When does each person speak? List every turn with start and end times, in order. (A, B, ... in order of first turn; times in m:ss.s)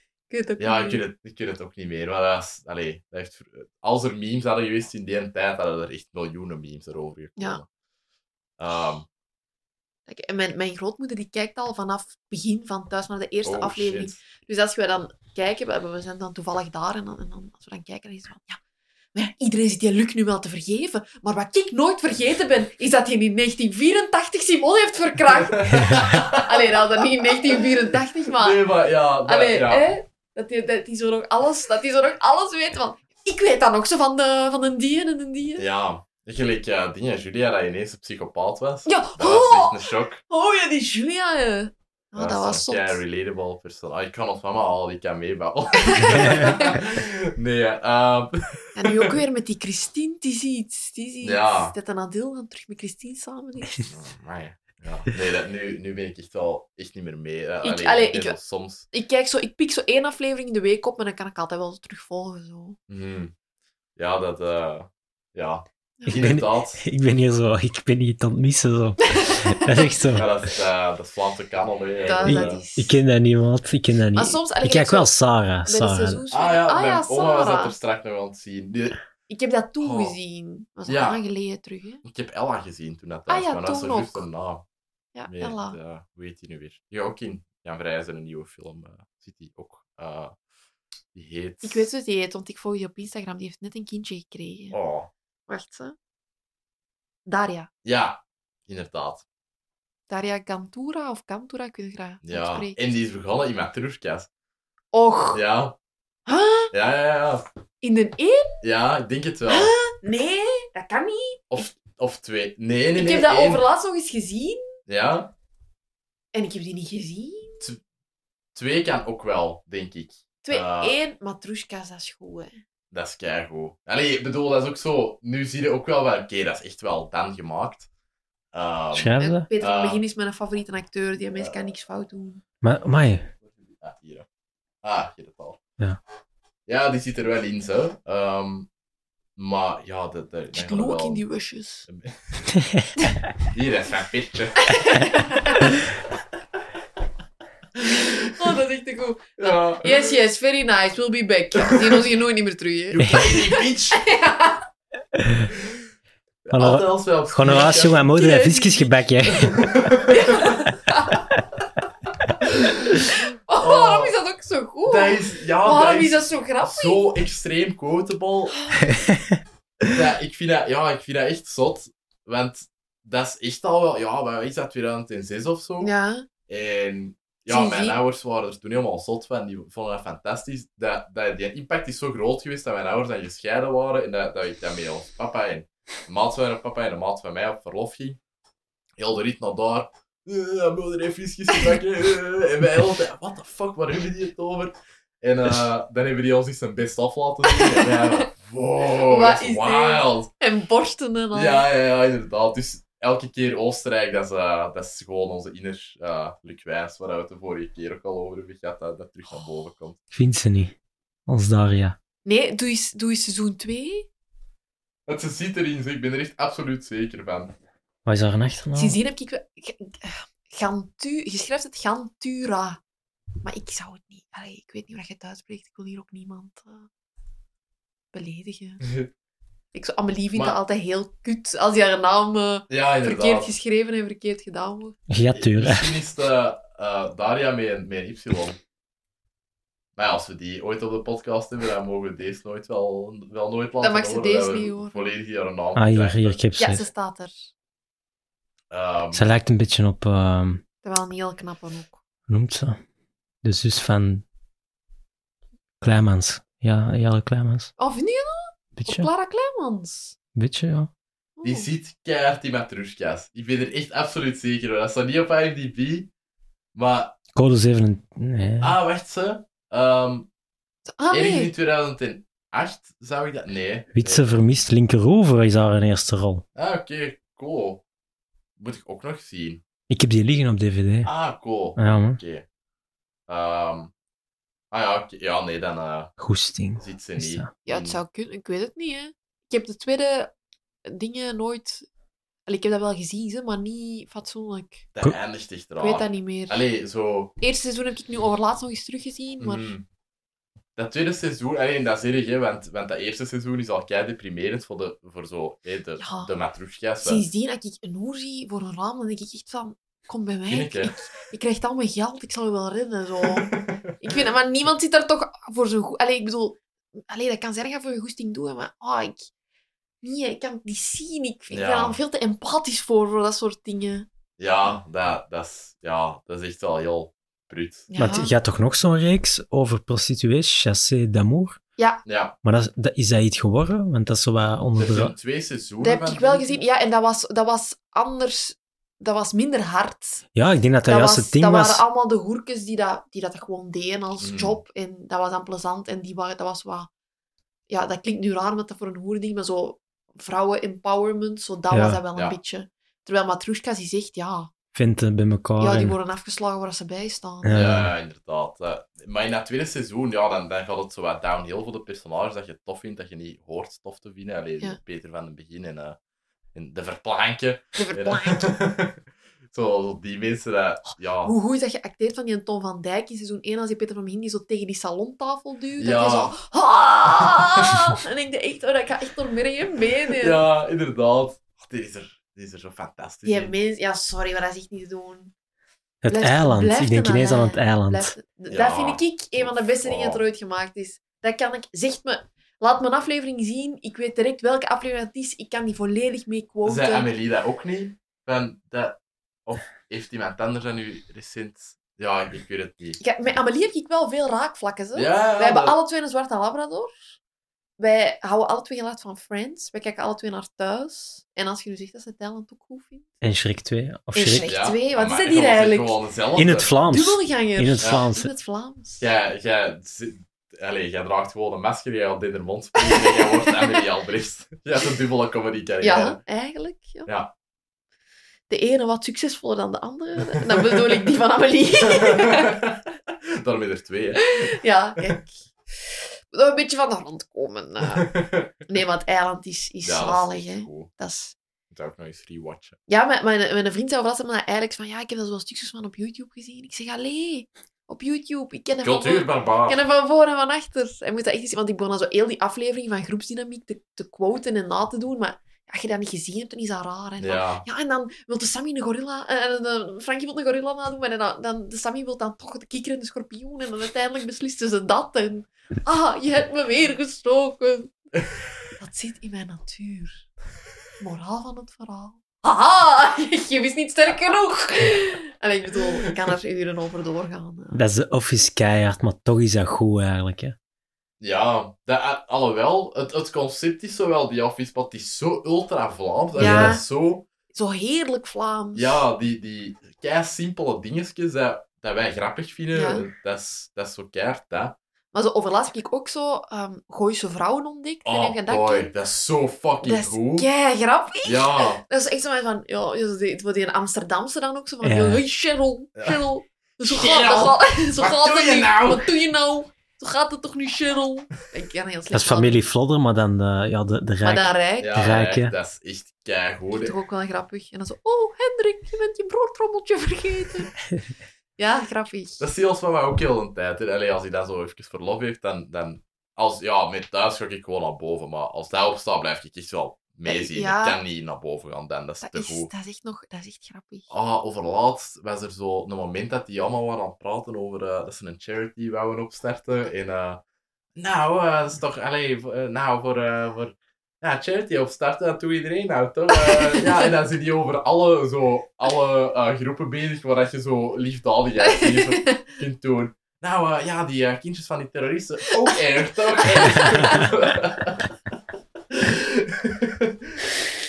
0:00.3-0:01.0 A
0:00.6-0:07.7 B
0:08.6-0:09.0 B
0:10.1-0:18.6 A
0:13.4-0:14.2 B
0:19.1-0:28.6 A
0:25.5-0:27.6 B
0:28.4-0:29.9 B
0:29.2-0:35.6 A
0:35.6-0:40.2 B
0:38.8-0:43.0 A
0:42.2-0:49.1 B
0:45.8-0:46.8 A
0:48.7-0:53.9 A
0:51.2-0:51.7 B
0:53.8-0:58.9 B
0:57.6-0:58.4 A
0:58.9-1:02.8 A
1:02.9-1:03.3 B
1:04.0-1:06.8 B
1:06.1-1:10.3 C
1:09.1-1:09.9 A
1:10.1-1:12.6 B
1:12.0-1:12.9 A
1:12.2-1:16.2 C
1:14.1-1:15.1 A
1:15.6-1:17.7 A
1:16.3-1:19.0 B
1:19.3-1:22.0 A
1:19.8-1:20.2 B
1:20.9-1:21.2 B
1:22.0-1:24.6 B
1:23.3-1:24.2 A
1:25.1-1:25.8 A
1:25.3-1:30.4 B
1:31.1-1:31.9 B
1:31.6-1:34.8 A
1:34.7-1:35.1 B
1:35.5-1:35.9 A
1:37.2-1:37.7 A
1:37.8-1:39.2 B
1:40.1-1:42.8 A
1:42.2-1:44.3 B
1:44.9-1:45.4 A
1:45.3-1:45.8 B
1:46.3-1:46.7 A
1:46.7-1:47.4 B
1:47.8-1:48.6 A
1:48.6-1:49.7 B
1:49.5-1:51.6 A
1:51.5-1:53.6 B
1:53.0-1:54.6 A
1:54.9-1:55.3 B
1:56.3-1:57.6 A
1:58.5-2:01.0 B
2:00.4-2:02.6 A
2:02.9-2:07.9 B
2:08.5-2:10.0 B
2:08.9-2:09.5 C
2:09.2-2:12.4 A
2:11.4-2:11.7 B
2:12.6-2:13.3 C
2:13.4-2:14.2 B
2:14.8-2:15.6 B
2:16.7-2:18.7 B
2:19.4-2:21.2 B
2:20.5-2:21.9 A
2:21.9-2:22.4 B
2:22.5-2:22.9 C
2:23.5-2:24.7 B
2:24.6-2:25.7 A
2:28.4-2:34.6 A
2:29.4-2:30.2 B
2:31.6-2:32.1 B
2:32.9-2:34.0 B
2:35.2-2:35.5 C
2:36.4-2:38.0 B
2:36.5-2:39.6 C
2:38.1-2:39.0 A
2:39.4-2:40.5 B
2:40.1-2:41.2 A
2:42.6-2:47.0 A
2:43.6-2:44.1 B
2:44.9-2:48.6 B
2:48.9-2:49.4 C
2:49.8-2:55.9 B
2:55.8-2:56.2 A
2:56.5-3:08.2 B
2:57.5-2:58.0 A
3:09.0-3:20.3 B
3:17.5-3:18.2 A
3:18.8-3:21.6 A
3:21.3-3:30.0 B
3:30.1-3:30.7 C
3:31.3-3:32.0 C
3:32.2-3:34.1 A
3:35.1-3:37.5 B
3:38.0-3:39.0 C
3:38.7-3:42.8 A
3:43.4-3:46.9 A
3:48.1-3:48.8 A
3:48.8-3:49.1 B
3:49.7-3:55.0 A
3:52.7-3:53.5 B
3:55.1-3:55.9 C
3:55.3-3:58.6 B
4:00.0-4:06.4 B
4:03.8-4:05.0 A
4:05.8-4:06.9 C
4:06.6-4:07.3 A
4:08.7-4:09.3 B
4:09.1-4:10.6 C
4:10.8-4:12.0 A
4:12.3-4:12.8 C
4:13.4-4:14.2 C
4:15.8-4:17.7 C
4:17.8-4:20.2 A
4:18.8-4:19.1 C
4:20.3-4:20.9 C
4:21.4-4:21.7 A
4:21.4-4:26.1 B
4:26.7-4:27.2 B
4:27.3-4:28.8 C
4:28.6-4:30.3 B
4:30.9-4:31.5 A
4:31.1-4:34.4 B
4:33.9-4:36.4 C
4:36.5-4:37.8 B
4:38.6-4:39.6 B
4:39.9-4:41.1 C
4:41.0-4:42.4 B
4:41.8-4:42.2 C
4:43.3-4:43.9 B
4:44.7-4:46.1 B
4:46.2-4:47.5 C
4:46.8-4:48.0 B
4:47.6-4:50.3 A
4:50.8-4:51.8 A
4:52.5-4:54.9 A
4:54.9-4:57.3 B
4:55.8-4:56.6 A
4:57.4-4:59.7 A
4:59.4-4:59.8 B
5:00.8-5:07.2 B
5:06.0-5:06.3 A
5:07.0-5:19.3 A
5:10.5-5:11.0 B
5:13.2-5:14.2 B
5:20.0-5:24.1 A
5:21.5-5:22.0 B
5:24.4-5:27.9 B
5:27.9-5:28.3 A
5:28.0-5:31.6 C
5:32.0-5:32.3 B
5:32.4-5:35.1 C
5:34.8-5:36.6 B
5:35.8-5:40.2 A
5:40.3-5:41.8 C
5:40.8-5:46.9 A
5:44.2-5:44.6 B
5:47.7-5:54.5 A
5:51.7-5:52.0 C
5:54.7-5:56.0 C
5:55.6-5:57.8 A
5:57.4-5:57.9 C
5:57.5-6:06.0 B
6:06.5-6:09.0 B
6:07.8-6:08.5 A
6:09.5-6:11.3 B
6:11.2-6:20.4 A
6:15.8-6:16.3 B
6:20.2-6:23.5 B
6:23.2-6:25.3 A
6:26.0-6:28.1 C
6:26.1-6:37.1 A
6:28.5-6:30.2 B
6:36.6-6:43.0 B
6:43.0-6:47.2 A
6:44.9-6:45.8 B
6:47.8-6:53.1 A
6:53.2-6:54.5 C
6:54.1-6:56.0 A
6:54.5-6:56.7 B
6:56.4-6:58.3 C
6:56.9-6:59.0 A
6:59.0-7:06.2 B
7:02.8-7:03.8 A
7:05.8-7:07.1 A
7:07.0-7:07.3 B
7:08.5-7:12.6 A
7:10.3-7:11.0 B
7:11.9-7:12.8 B
7:13.4-7:15.2 B
7:14.2-7:18.1 A
7:17.9-7:18.5 B
7:18.6-7:21.3 A
7:19.8-7:20.9 B
7:21.7-7:22.8 B
7:22.9-7:48.0 A
7:28.8-7:29.8 B
7:37.2-7:37.6 B
7:48.8-7:50.3 A
7:51.0-7:57.8 A
7:57.7-8:00.5 C
8:01.2-8:07.2 B
8:06.4-8:06.8 C
8:06.4-8:06.8 A
8:07.5-8:09.0 A
8:08.7-8:14.8 B
8:12.7-8:13.0 A
8:15.1-8:18.9 A
8:18.0-8:20.5 B
8:19.8-8:32.5 A
8:21.2-8:21.8 B
8:24.8-8:25.2 C
8:26.0-8:26.2 B
8:26.8-8:29.1 B
8:32.1-8:35.5 C
8:34.2-8:35.0 A
8:34.8-8:36.9 B
8:36.7-8:40.7 A
8:41.6-8:42.4 A
8:42.4-8:52.7 B
8:50.2-8:51.0 A
8:52.2-8:54.1 A
8:54.1-9:00.4 B
9:01.0-9:18.1 B
9:06.4-9:07.0 A
9:11.6-9:12.4 A
9:16.4-9:17.3 A
9:18.9-9:20.5 B